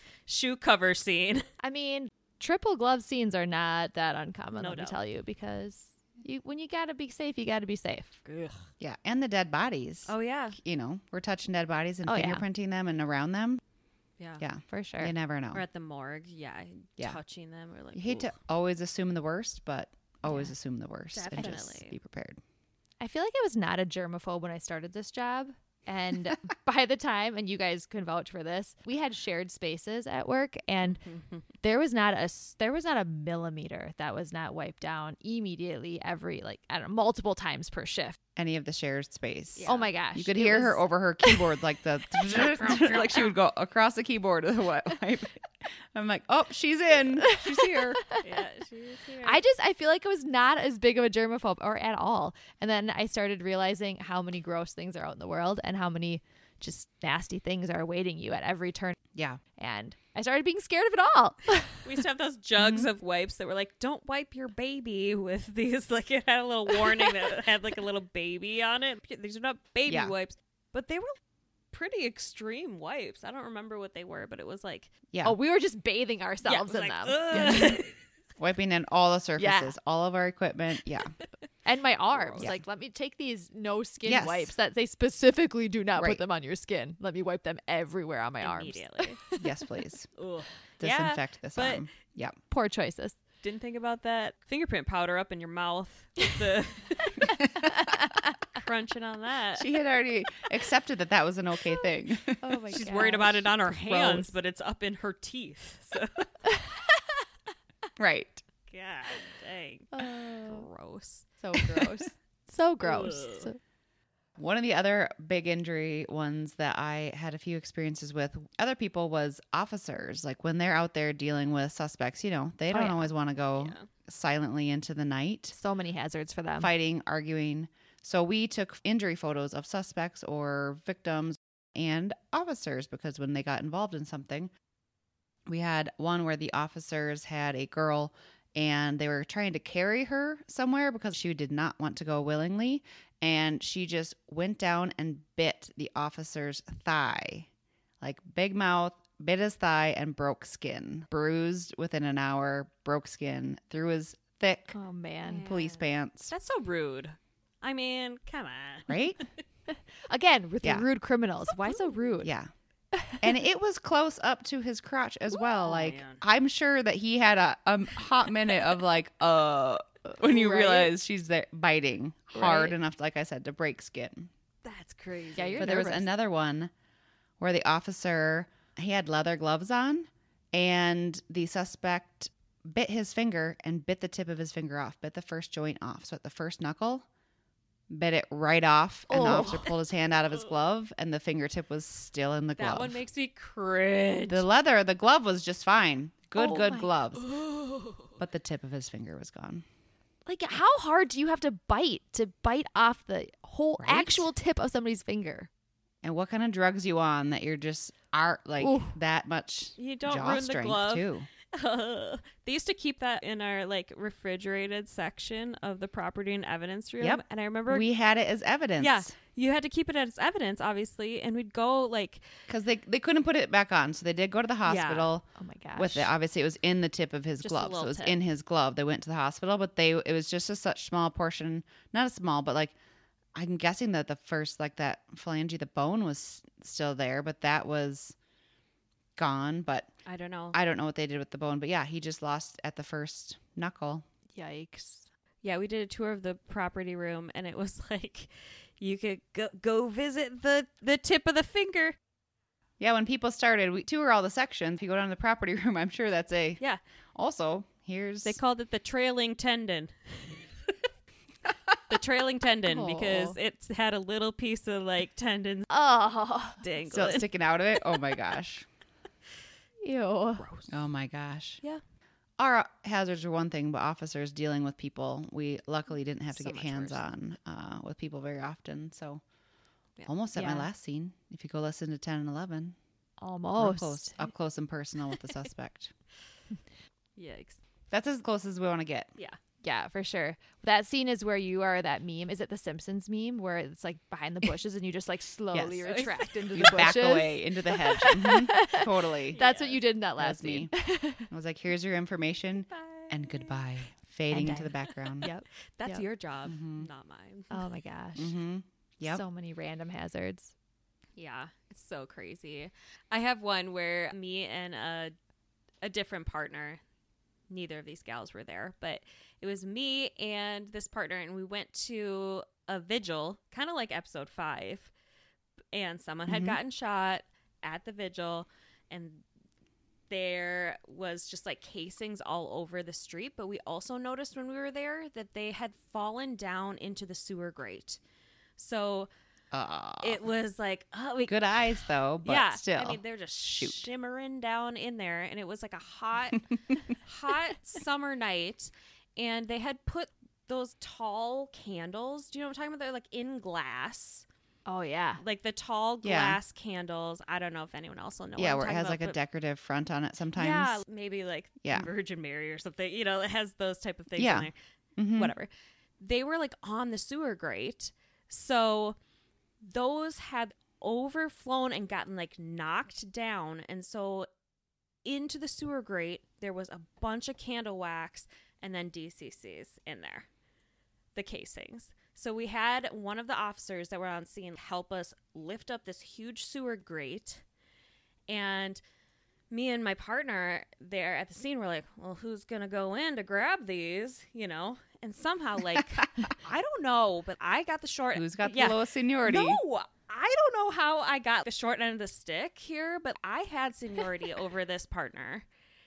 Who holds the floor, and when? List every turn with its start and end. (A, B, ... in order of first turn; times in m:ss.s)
0:00.3-0:01.4 A
0:01.6-0:08.2 B
0:04.6-0:05.0 A
0:08.2-0:08.7 A
0:08.8-0:13.6 C
0:10.1-0:10.6 A
0:12.1-0:12.4 B
0:14.2-0:14.4 A
0:14.4-0:15.6 C
0:14.7-0:15.1 B
0:15.5-0:18.4 A
0:17.9-0:22.4 C
0:20.3-0:20.5 B
0:21.1-0:21.9 A
0:23.0-0:31.0 B
0:30.9-0:31.4 A
0:31.6-0:38.2 B
0:38.4-0:48.0 C
0:39.6-0:39.9 A
0:39.7-0:41.4 B
0:42.7-0:43.2 A
0:47.2-0:48.2 B
0:48.2-0:49.4 A
0:49.2-0:59.0 B
0:59.1-0:59.4 C
0:59.6-1:01.9 B
1:01.8-1:11.1 A
1:02.6-1:02.9 C
1:09.9-1:10.1 C
1:11.7-1:15.0 A
1:15.1-1:15.4 C
1:15.2-1:17.8 B
1:16.4-1:17.9 A
1:17.3-1:17.8 C
1:18.4-1:21.2 C
1:19.4-1:19.7 B
1:21.6-1:29.4 B
1:22.1-1:22.5 A
1:24.0-1:24.5 C
1:26.0-1:26.2 C
1:28.4-1:29.2 A
1:29.4-1:30.1 C
1:30.2-1:31.9 A
1:30.8-1:32.4 C
1:32.5-1:33.2 B
1:33.4-1:37.3 A
1:37.2-1:38.4 B
1:37.4-1:37.7 C
1:38.5-1:39.7 A
1:39.6-1:42.6 C
1:42.4-1:44.2 B
1:42.7-1:46.3 A
1:43.9-1:44.2 C
1:46.5-1:47.0 B
1:48.0-1:48.4 C
1:48.7-1:51.9 A
1:49.9-1:50.7 B
1:51.4-1:53.6 B
1:52.8-1:53.5 A
1:54.4-2:05.6 C
2:02.7-2:03.1 B
2:03.6-2:03.9 A
2:05.6-2:06.7 B
2:06.6-2:14.5 C
2:15.5-2:27.5 C
2:28.0-2:34.8 C
2:34.7-2:35.4 B
2:35.2-2:39.3 A
2:35.5-2:36.3 C
2:38.9-2:39.2 C
2:39.7-2:42.3 B
2:41.6-2:42.0 A
2:42.2-2:42.5 C
2:42.9-2:43.2 B
2:43.2-2:54.3 C
2:45.6-2:46.2 A
2:50.1-2:50.9 B
2:52.3-2:52.8 B
2:54.6-2:55.7 A
2:55.4-2:56.1 B
2:55.6-2:56.7 C
2:57.4-3:07.1 C
3:07.9-3:13.0 C
3:09.1-3:09.7 B
3:09.2-3:09.7 A
3:12.6-3:14.4 A
3:14.3-3:17.3 C
3:16.4-3:16.9 B
3:17.2-3:18.1 A
3:18.2-3:19.6 C
3:20.3-3:25.5 B
3:23.8-3:24.3 C
3:26.0-3:31.3 C
3:28.6-3:29.0 B
3:29.8-3:37.9 A
3:37.0-3:39.1 C
3:38.8-3:42.3 A
3:42.5-3:52.8 C
3:44.6-3:45.1 A
3:45.4-3:46.1 B
3:47.4-3:48.2 A
3:53.4-3:58.2 C
3:59.2-3:59.9 C
4:00.1-4:00.6 A
4:00.5-4:04.0 C
4:04.3-4:05.1 B
4:05.4-4:12.0 A
4:12.8-4:16.6 C
4:17.2-4:18.4 C
4:18.2-4:20.5 A
4:21.9-4:25.7 A
4:22.7-4:23.4 B
4:25.7-4:26.6 B
4:26.6-4:27.3 A
4:26.9-4:28.7 C
4:29.8-4:30.5 B
4:30.4-4:30.8 A
4:30.7-4:31.6 C
4:32.4-4:39.2 C
4:36.3-4:37.1 A
4:40.1-4:42.8 C
4:40.4-4:40.7 B
4:43.2-4:44.2 B
4:43.6-4:45.9 C
4:47.2-4:47.6 A
4:47.9-4:49.1 C
4:49.6-5:01.3 B
4:55.5-4:55.8 C
4:55.8-4:56.7 A
4:56.5-4:59.4 C
4:59.3-4:59.8 A
5:00.2-5:00.7 C
5:01.3-5:05.3 C
5:02.7-5:03.8 A
5:04.3-5:06.0 B
5:04.9-5:07.7 A
5:06.5-5:06.9 C
5:07.5-5:08.4 B
5:08.2-5:09.2 C
5:09.0-5:10.5 B
5:11.2-5:15.1 A
5:15.8-5:16.8 A
5:17.5-5:24.9 A
5:25.7-5:29.2 A
5:26.3-5:26.6 C
5:30.1-5:38.0 A
5:38.6-5:39.1 A
5:39.5-5:40.2 C
5:40.0-5:41.6 A
5:41.3-5:43.9 C
5:42.2-5:54.3 A
5:54.7-5:55.2 B
5:55.2-5:59.2 A
5:56.0-5:56.4 C
5:58.4-6:00.8 C
6:00.4-6:04.5 A
6:01.6-6:01.9 C
6:04.2-6:05.3 C
6:05.2-6:05.5 A
6:06.0-6:09.0 A
6:09.6-6:14.3 A
6:15.0-6:20.3 A
6:21.2-6:27.4 A
6:28.3-6:28.8 A
6:29.5-6:45.5 A
6:38.2-6:39.6 C